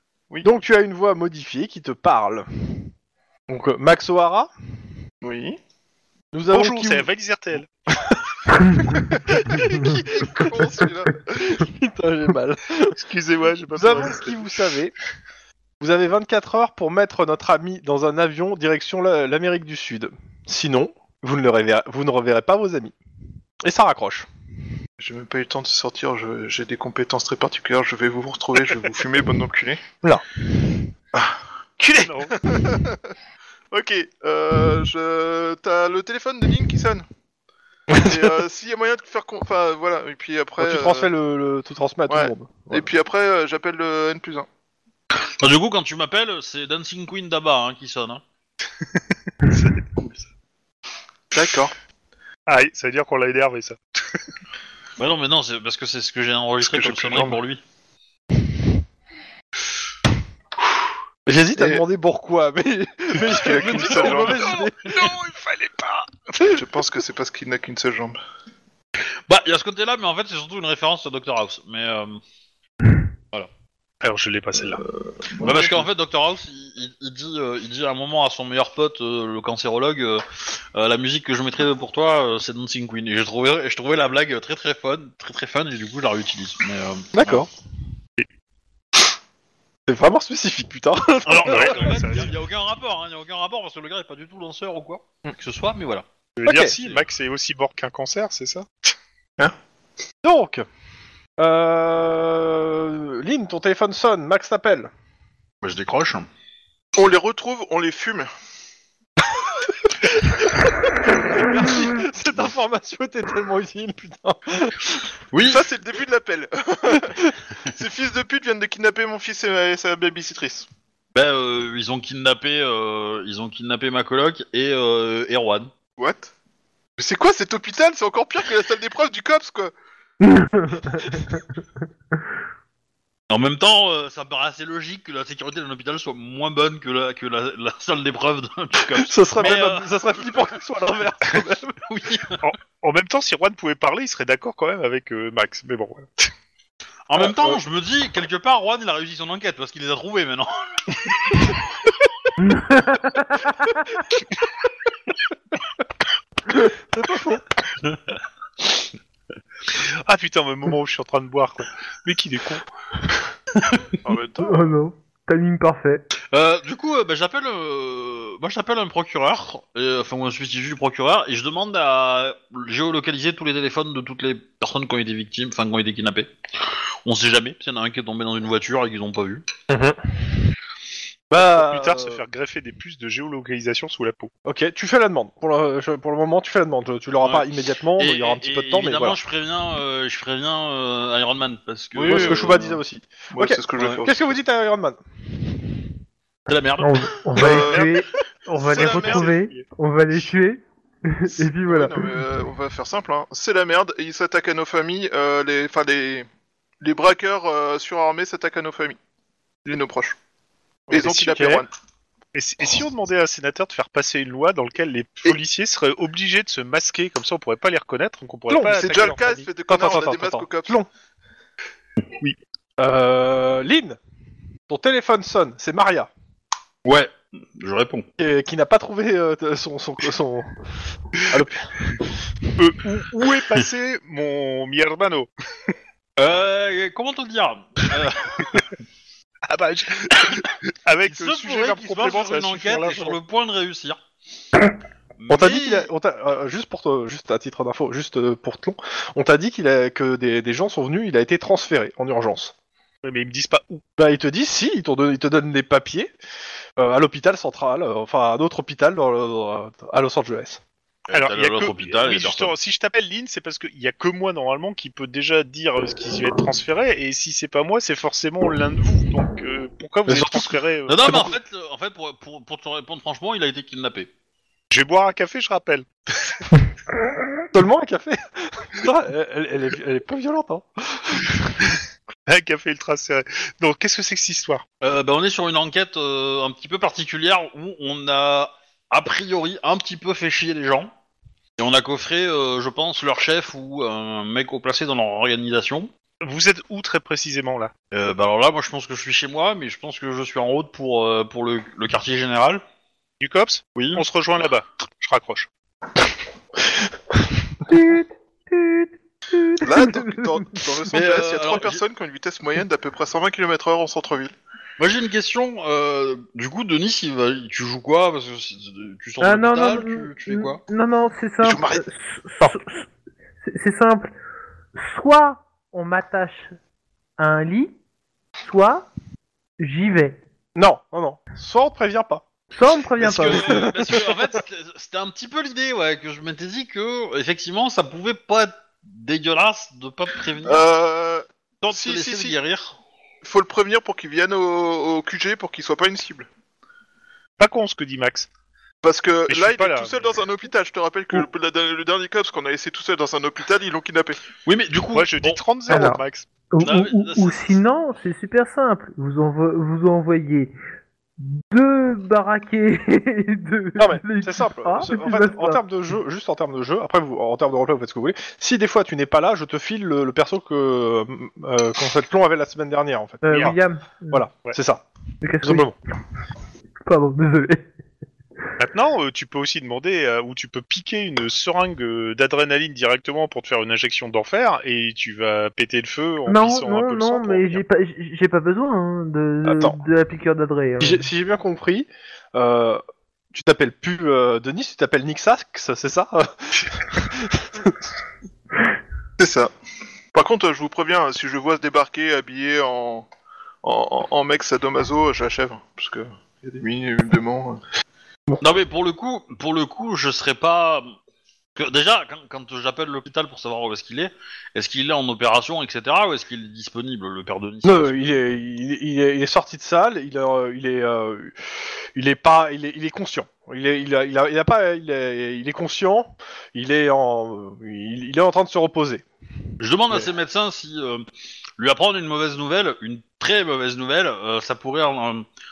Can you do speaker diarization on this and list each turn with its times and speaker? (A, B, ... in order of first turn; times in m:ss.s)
0:00.4-0:02.9 A
0:03.5-0:04.5 A
0:05.2-0:05.6 B
0:06.3-0:07.1 A
0:06.5-0:07.7 C
0:07.9-0:08.2 A
0:08.9-0:09.6 A
0:09.3-0:11.2 B
0:11.3-0:13.0 A
0:13.0-0:14.6 C
0:13.8-0:14.9 A
0:15.8-0:22.9 A
0:23.6-0:24.3 A
0:25.0-0:29.8 B
0:31.8-0:32.1 A
0:32.0-0:32.3 C
0:32.3-0:33.1 B
0:33.7-0:37.0 B
0:37.9-0:38.3 A
0:37.9-0:41.1 B
0:40.6-0:42.9 A
0:42.1-0:44.5 B
0:45.1-0:48.2 D
0:49.4-0:50.1 C
0:51.3-0:51.7 B
0:52.5-0:54.0 C
0:55.0-0:57.6 D
0:56.6-0:57.3 B
1:01.2-1:05.1 A
1:01.6-1:01.8 B
1:03.2-1:04.5 B
1:03.6-1:06.1 D
1:03.8-1:04.3 C
1:06.4-1:08.2 B
1:09.3-1:12.2 D
1:14.0-1:14.8 C
1:15.4-1:27.5 D
1:27.1-1:27.5 A
1:29.9-1:32.0 A
1:31.2-1:36.1 D
1:31.4-1:32.3 C
1:36.4-1:38.7 C
1:36.4-1:36.7 A
1:36.7-1:37.0 D
1:40.2-1:40.6 A
1:41.4-1:44.9 A
1:45.6-1:46.3 D
1:46.9-1:48.3 B
1:50.6-1:55.0 A
1:55.3-1:55.6 D
1:55.4-2:00.7 B
1:57.0-1:57.3 A
2:01.1-2:05.7 D
2:06.0-2:06.3 B
2:07.0-2:09.7 B
2:10.4-2:11.3 E
2:10.7-2:11.1 A
2:13.3-2:20.4 D
2:18.9-2:21.8 A
2:21.8-2:22.5 D
2:22.4-2:26.1 C
2:27.1-2:31.5 D
2:27.2-2:27.6 A
2:32.4-2:33.8 E
2:36.5-2:37.4 A
2:39.7-2:42.6 C
2:44.0-2:44.6 B
2:44.4-2:46.0 E
2:46.3-2:59.4 D
2:59.7-3:00.0 A
3:01.3-3:02.2 A
3:01.4-3:04.3 C
3:04.4-3:09.2 A
3:07.2-3:12.8 D
3:11.9-3:12.6 B
3:12.0-3:15.0 A
3:13.3-3:14.4 B
3:16.5-3:17.1 D
3:16.8-3:22.1 E
3:17.3-3:18.0 B
3:17.4-3:17.9 C
3:18.6-3:19.4 B
3:18.7-3:19.7 C
3:21.3-3:26.3 B
3:26.8-3:29.0 B
3:29.6-3:30.2 B
3:30.9-3:31.7 B
3:30.9-3:31.6 A
3:32.3-3:39.5 C
3:38.5-3:39.1 A
3:38.7-3:40.8 B
3:39.7-3:40.9 A
3:42.8-3:44.0 A
3:44.7-3:46.1 A
3:46.8-3:48.1 D
3:48.2-3:50.6 A
3:51.1-3:51.6 A
3:52.6-3:55.3 C
3:56.2-3:58.7 D
3:59.5-4:03.2 C
4:01.0-4:04.0 D
4:05.2-4:05.9 D
4:05.3-4:12.5 A
4:13.0-4:13.8 C
4:14.0-4:16.1 A
4:16.8-4:20.6 A
4:21.1-4:22.5 D
4:21.1-4:31.3 C
4:30.1-4:30.5 A
4:30.9-4:34.1 D
4:31.0-4:31.3 A
4:34.7-4:35.9 C
4:37.5-4:41.7 A
4:42.2-4:44.6 C
4:44.8-4:50.9 D
4:51.6-4:55.9 D
4:56.2-4:57.7 C
4:57.9-5:02.6 D
5:03.2-5:05.5 C
5:03.8-5:04.0 D
5:07.6-5:10.5 E
5:09.6-5:14.3 B
5:10.9-5:11.8 D
5:14.8-5:20.6 D
5:19.2-5:22.8 E
5:21.4-5:21.8 B
5:23.4-5:24.1 E
5:24.8-5:26.5 E
5:27.2-5:27.7 E
5:28.4-5:28.9 E
5:29.6-5:30.2 E
5:30.6-5:32.2 A
5:32.5-5:33.9 E
5:33.0-5:40.6 D
5:33.2-5:34.1 A
5:40.4-5:42.4 B
5:41.6-5:42.8 D
5:43.2-5:46.3 B
5:47.4-5:48.3 C
5:48.8-5:54.2 B
5:49.3-5:50.1 C
5:54.4-5:55.8 D
5:54.9-5:56.3 C
5:55.7-6:00.5 E
5:56.6-5:57.6 D
6:01.2-6:05.6 E
6:03.8-6:13.4 A
6:13.2-6:14.2 E
6:13.3-6:13.6 C
6:14.1-6:14.8 A
6:15.2-6:15.7 E
6:15.4-6:15.7 A
6:16.8-6:17.7 E
6:18.6-6:27.6 C
6:26.3-6:31.0 E
6:29.4-6:29.8 A
6:30.8-6:32.8 A
6:33.3-6:37.8 A
6:39.2-6:39.5 B
6:40.1-6:43.1 B
6:43.6-6:47.6 B
6:48.4-6:50.9 D
6:51.6-6:58.2 D
6:57.6-7:01.4 A
7:01.9-7:09.0 A
7:09.6-7:11.0 D
7:11.6-7:15.2 D